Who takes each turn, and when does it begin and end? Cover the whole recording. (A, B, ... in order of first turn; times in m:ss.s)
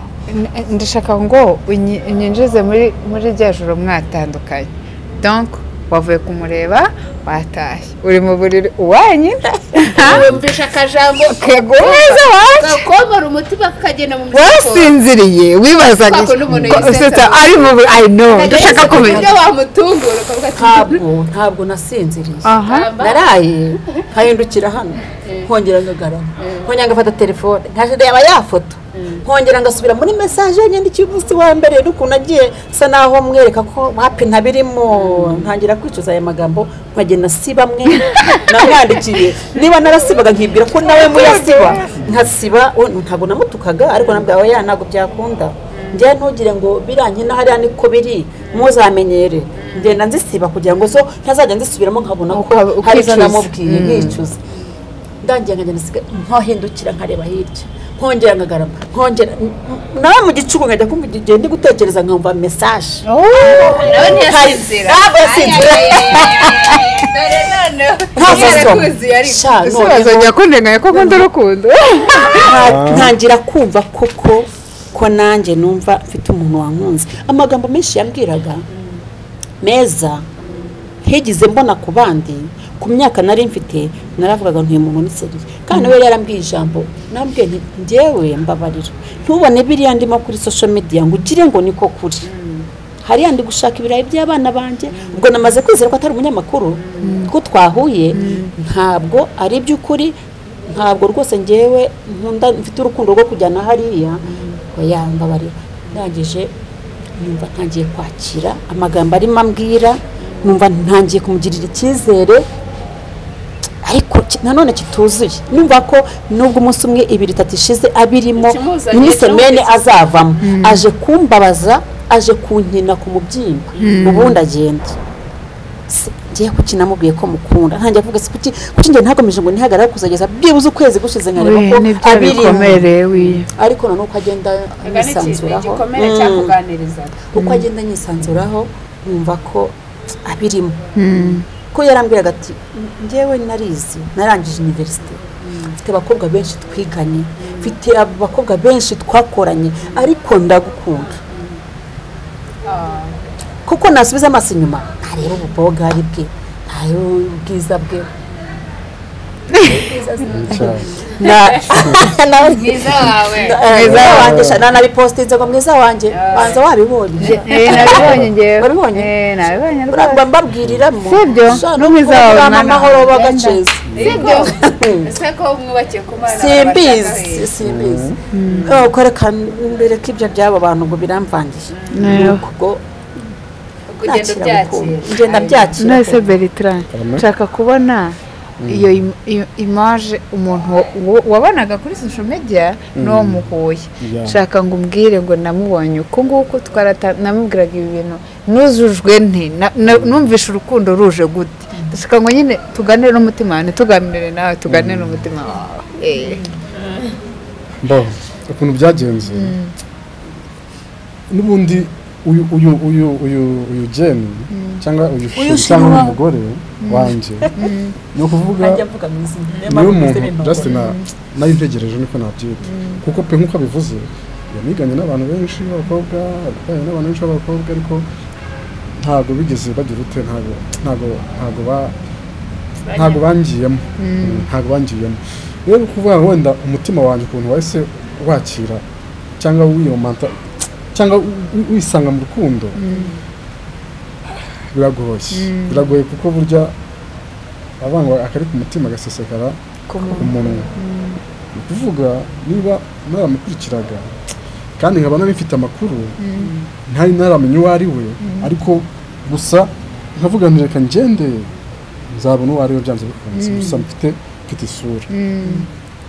0:00.3-0:10.3 A
0:09.9-0:15.0 B
0:09.9-0:10.2 C
0:11.2-0:12.9 A
0:14.3-0:19.3 A
0:15.8-0:21.0 B
0:16.6-0:17.1 C
0:18.3-0:19.4 C
0:20.6-0:54.4 C
0:22.4-0:22.9 A
0:22.6-0:23.4 B
0:25.1-0:25.5 B
0:26.4-0:26.7 B
0:29.0-0:29.2 B
0:34.9-0:35.5 B
0:38.1-0:38.6 A
0:40.9-0:41.9 A
0:42.0-0:42.3 D
0:43.9-0:44.3 B
0:45.7-0:46.1 B
0:48.5-0:48.7 B
0:49.6-0:50.0 B
0:52.3-0:54.2 A
0:55.2-1:06.8 C
1:03.0-1:04.2 A
1:03.6-1:09.5 B
1:08.2-1:10.3 C
1:08.2-1:08.8 A
1:09.6-1:12.8 A
1:10.9-1:11.3 C
1:12.3-1:18.6 C
1:12.6-1:13.1 D
1:18.7-1:19.0 B
1:19.6-1:20.3 C
1:20.4-1:20.7 B
1:21.0-1:32.3 C
1:32.2-1:32.7 B
1:33.0-1:46.5 C
1:34.9-1:35.5 B
1:36.8-1:37.2 B
1:37.0-1:37.3 A
1:38.1-1:38.5 B
1:38.1-1:38.5 A
1:44.2-1:44.6 B
1:47.2-1:52.5 C
1:50.2-1:50.6 B
1:53.8-2:05.0 C
1:58.4-1:59.9 B
2:00.4-2:00.8 A
2:03.8-2:04.3 B
2:03.8-2:04.4 A
2:05.9-2:16.5 C
2:11.4-2:13.5 A
2:14.8-2:17.2 B
2:17.3-2:25.2 C
2:17.4-2:17.7 A
2:21.0-2:21.5 A
2:25.4-2:25.8 B
2:25.7-2:31.2 C
2:27.4-2:27.7 B
2:31.2-2:31.6 B
2:32.6-2:33.2 B
2:33.6-2:38.1 C
2:39.6-2:39.9 A
2:39.6-2:49.1 C
2:40.3-2:43.6 B
2:40.3-2:40.9 D
2:41.8-2:42.1 D
2:43.6-2:44.4 A
2:43.8-2:44.6 D
2:46.1-2:46.6 B
2:47.2-2:50.2 A
2:47.2-2:48.2 B
2:48.0-2:48.3 D
2:49.9-2:55.1 C
2:51.0-2:54.5 A
2:54.0-2:57.5 B
2:56.3-2:58.1 C
2:57.6-2:58.2 D
2:58.3-2:58.7 A
2:58.4-2:58.9 B
2:58.6-3:02.8 C
3:01.7-3:02.3 B
3:01.9-3:02.4 A
3:03.9-3:06.3 B
3:04.0-3:06.3 C
3:05.8-3:26.4 A
3:06.9-3:07.3 D
3:08.6-3:09.1 D
3:13.0-3:13.5 D
3:14.0-3:14.4 D
3:19.8-3:20.3 D
3:24.7-3:25.3 D
3:26.8-3:27.0 B
3:27.8-3:29.6 D
3:29.3-3:29.7 A
3:31.3-3:38.8 D
3:34.5-3:34.8 A
3:35.3-3:36.2 C
3:36.8-3:38.0 A
3:38.6-3:40.8 C
3:39.7-3:48.1 D
3:40.6-3:41.1 A
3:42.6-3:43.0 A
3:49.0-3:52.0 D
3:52.9-3:53.2 B
3:52.9-3:58.8 D
3:54.0-3:54.5 A
3:59.4-4:02.8 D
4:02.8-4:03.2 A
4:04.3-4:06.8 D
4:05.3-4:05.9 A
4:07.8-4:10.7 D
4:09.9-4:11.2 A
4:11.5-4:14.1 D
4:14.8-4:16.2 D
4:16.2-4:16.5 A
4:16.4-4:16.7 B
4:16.9-4:21.5 D
4:18.2-4:18.5 A
4:22.1-4:25.1 D
4:23.4-4:23.8 A
4:25.1-4:25.7 A
4:25.4-4:25.7 B